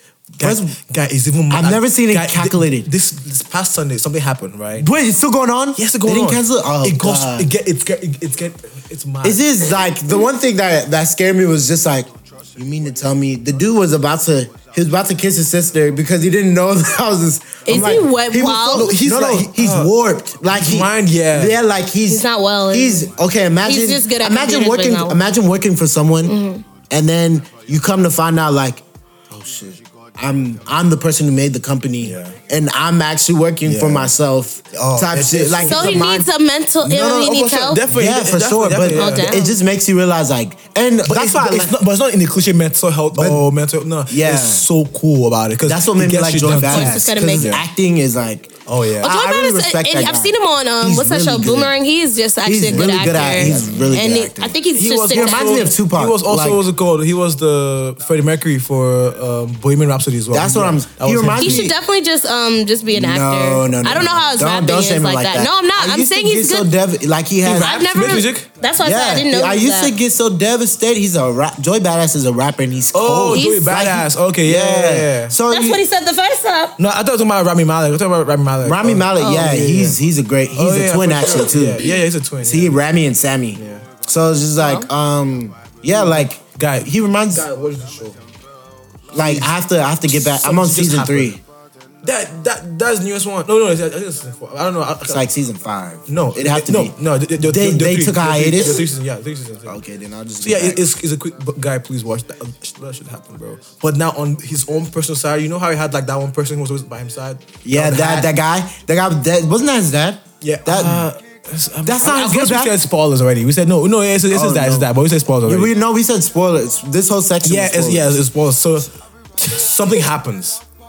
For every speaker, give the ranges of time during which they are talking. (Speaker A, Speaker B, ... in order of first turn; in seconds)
Speaker A: 0.4-0.8, 1.5-2.9, 4.8-7.5, 9.2-26.4, 26.9-36.3, 37.9-41.8, 43.1-43.4, 44.1-44.6, 45.6-51.8, 52.4-54.6, 55.1-56.6, 60.3-61.8, 62.9-67.8, 68.8-75.8, 78.6-87.5, 89.1-91.4, 95.0-98.9, 99.7-100.8, 107.6-111.1, 111.8-112.7, 114.3-114.9, 115.5-118.2
Speaker B: 0.4-4.9, 5.8-9.5, 18.5-19.9, 20.5-21.6, 32.0-32.4, 33.6-34.1, 34.7-36.2, 36.8-39.4, 41.0-47.6, 48.6-49.1, 52.7-53.9, 54.7-61.7, 67.4-68.5, 72.9-75.4, 76.8-80.0, 80.5-82.8, 83.5-83.9, 85.9-88.2, 89.1-89.5, 90.1-91.4, 92.0-95.2, 96.1-99.8, 100.4-108.3, 110.4-115.7, 117.4-120.6
Speaker C: 17.6-18.9, 22.1-23.1, 23.6-25.2, 26.2-26.6, 35.7-37.8, 38.9-39.5, 46.6-47.6, 49.0-55.7, 61.4-66.7, 67.4-69.9, 73.3-73.7, 75.5-76.8, 79.2-79.4, 84.6-84.9